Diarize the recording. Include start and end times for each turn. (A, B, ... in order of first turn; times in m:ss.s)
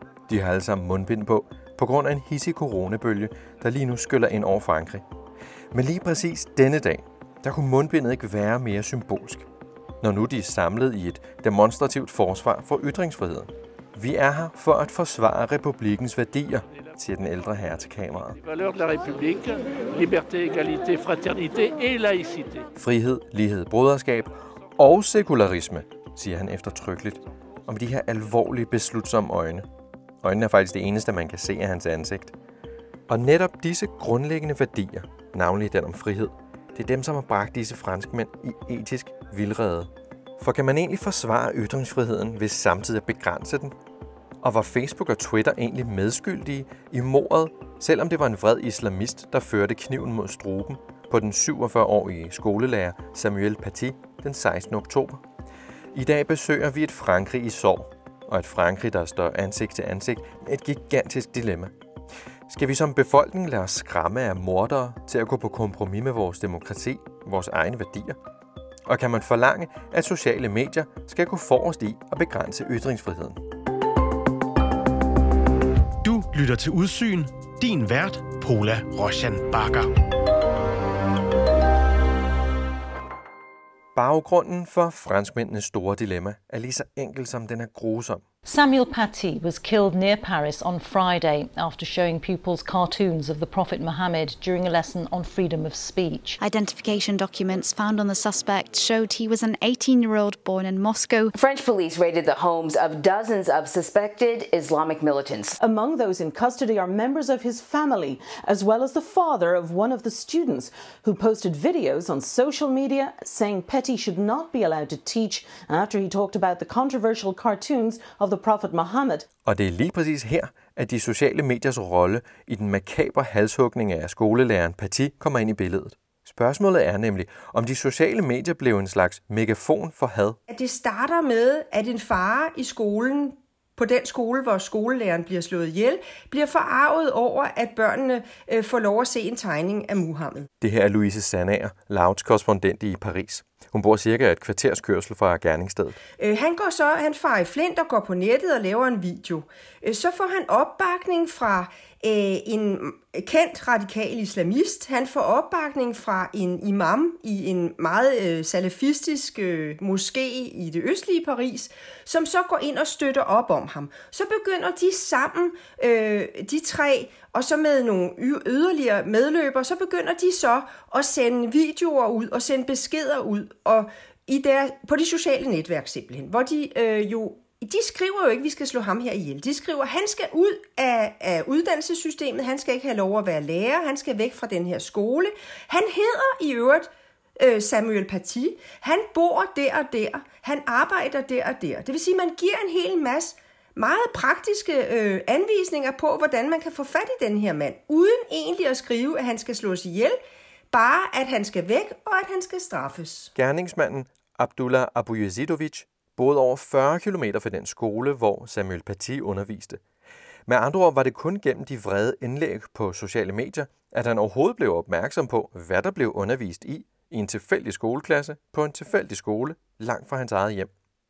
0:00.3-0:05.0 A
0:05.7-0:09.5 A
0:10.0-0:18.4 A
0:18.5-0:22.7 B
0:22.8-0:29.7 A
0:30.2-0:32.3 A
0:33.1-0:43.7 A
0:44.4-0:55.2 A
0:55.9-1:01.7 A
1:02.5-1:08.2 A
1:08.9-1:13.4 A
1:16.0-1:19.9 C
1:24.0-1:28.2 A
1:28.5-1:36.4 D
1:36.4-1:41.3 E
1:41.4-1:45.6 F
1:45.6-1:59.1 G
1:59.5-2:10.4 A
2:10.5-2:20.5 H
2:20.6-2:26.0 A
2:26.2-3:20.2 H
3:20.7-3:23.3 H
3:23.4-3:29.8 A
3:30.5-3:40.7 A